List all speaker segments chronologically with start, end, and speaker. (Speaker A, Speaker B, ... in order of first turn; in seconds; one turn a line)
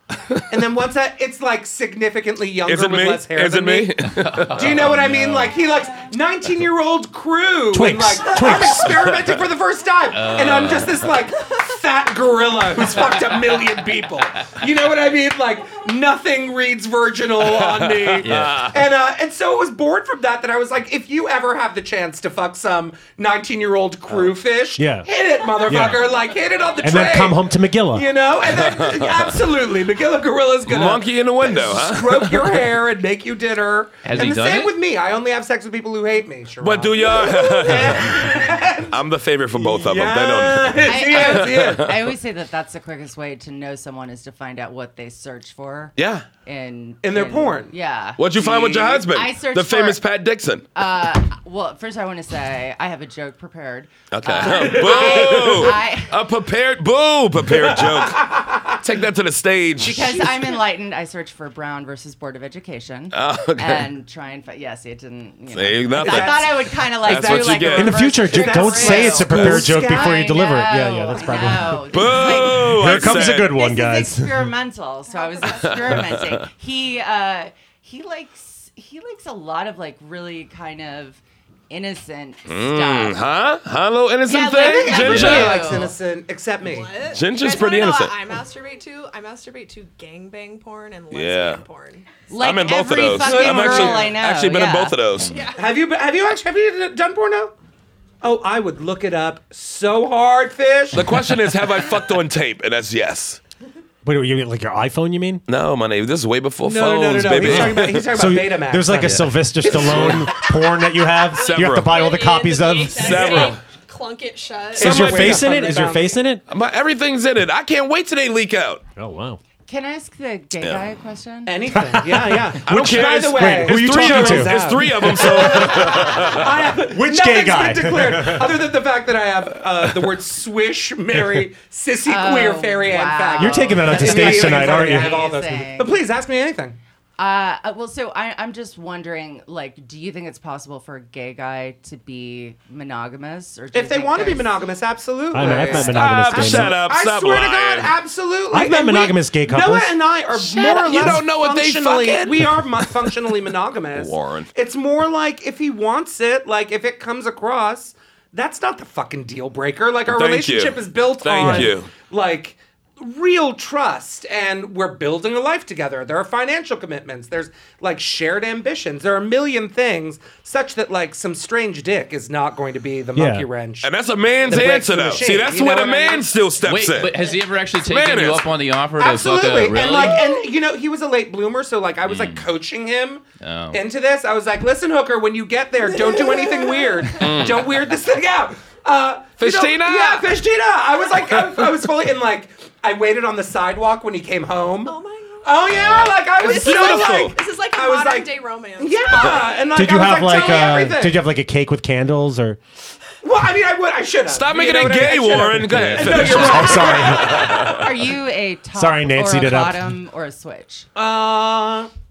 Speaker A: 0.5-42.0
Speaker B: 2.6-4.8
Speaker C: 4.1-5.6
Speaker D: 7.7-9.1
Speaker B: 8.9-9.4
Speaker C: 10.1-11.1
Speaker B: 17.6-18.5
Speaker C: 18.2-18.7
Speaker D: 24.8-25.1
Speaker D: 25.6-26.1
Speaker D: 26.8-28.1
Speaker B: 28.5-29.3
Speaker B: 30.6-32.6
Speaker C: 34.0-34.8
Speaker B: 36.6-42.0
Speaker E: 40.8-50.0
Speaker B: 46.0-46.3
Speaker A: 47.0-47.7
Speaker B: 48.2-50.7
Speaker A: 48.4-48.9
Speaker E: 50.8-56.2
Speaker B: 54.1-58.3
Speaker A: 54.5-55.6
Speaker A: 57.5-58.7
Speaker B: 58.8-60.3
Speaker E: 59.8-83.2
Speaker A: 59.9-60.5
Speaker B: 63.1-63.9
Speaker B: 65.5-68.0
Speaker A: 66.0-70.5
Speaker D: 67.7-74.5
Speaker B: 69.2-69.7
Speaker A: 71.1-71.6
Speaker B: 71.8-73.6
Speaker F: 75.1-75.8
Speaker B: 75.7-76.5
Speaker B: 82.5-85.8
Speaker E: 84.3-86.0
Speaker A: 84.5-87.0
Speaker F: 86.6-92.1
Speaker B: 87.1-88.1
Speaker B: 91.1-91.6
Speaker E: 92.3-95.0
Speaker B: 92.4-95.4
Speaker A: 93.1-94.2
Speaker F: 95.3-95.6
Speaker A: 95.5-97.5
Speaker A: 98.2-101.4
Speaker B: 100.9-103.4
Speaker D: 104.0-105.4
Speaker B: 105.5-108.2
Speaker A: 106.6-110.4
Speaker D: 107.3-113.5
Speaker B: 109.7-110.3
Speaker F: 111.3-115.3
Speaker B: 111.4-112.1
Speaker B: 112.9-113.6
Speaker A: 114.8-116.2
Speaker D: 114.8-116.4
Speaker B: 114.9-115.5
Speaker B: 116.5-118.8
Speaker D: 119.0-119.4
Speaker E: 119.7-121.7
Speaker A: 121.5-136.8
Speaker D: 121.7-124.9
Speaker B: 122.6-126.5
Speaker D: 126.8-128.7
Speaker E: 132.1-136.0
Speaker D: 133.4-135.3
Speaker E: 137.2-144.5
Speaker A: 143.7-176.3
Speaker D: 145.3-146.8
Speaker B: 145.5-147.9
Speaker D: 148.5-150.1
Speaker B: 150.5-153.2
Speaker D: 150.9-151.2
Speaker B: 153.9-154.5
Speaker B: 160.1-161.9
Speaker D: 161.4-161.7
Speaker D: 173.1-173.5
Speaker B: 173.8-177.2
Speaker C: 176.6-180.3
Speaker B: 177.8-178.5
Speaker A: 179.0-201.2
Speaker C: 182.1-182.5
Speaker C: 183.4-183.8
Speaker F: 186.3-186.9
Speaker B: 187.2-187.8
Speaker B: 189.4-190.3
Speaker F: 194.8-199.5
Speaker B: 195.8-197.4
Speaker D: 199.7-202.6
Speaker A: 203.2-207.9
Speaker B: 204.3-207.9
Speaker C: 205.7-206.3
Speaker D: 206.1-207.6
Speaker E: 207.7-210.9
Speaker D: 208.8-210.0
Speaker A: 210.9-211.9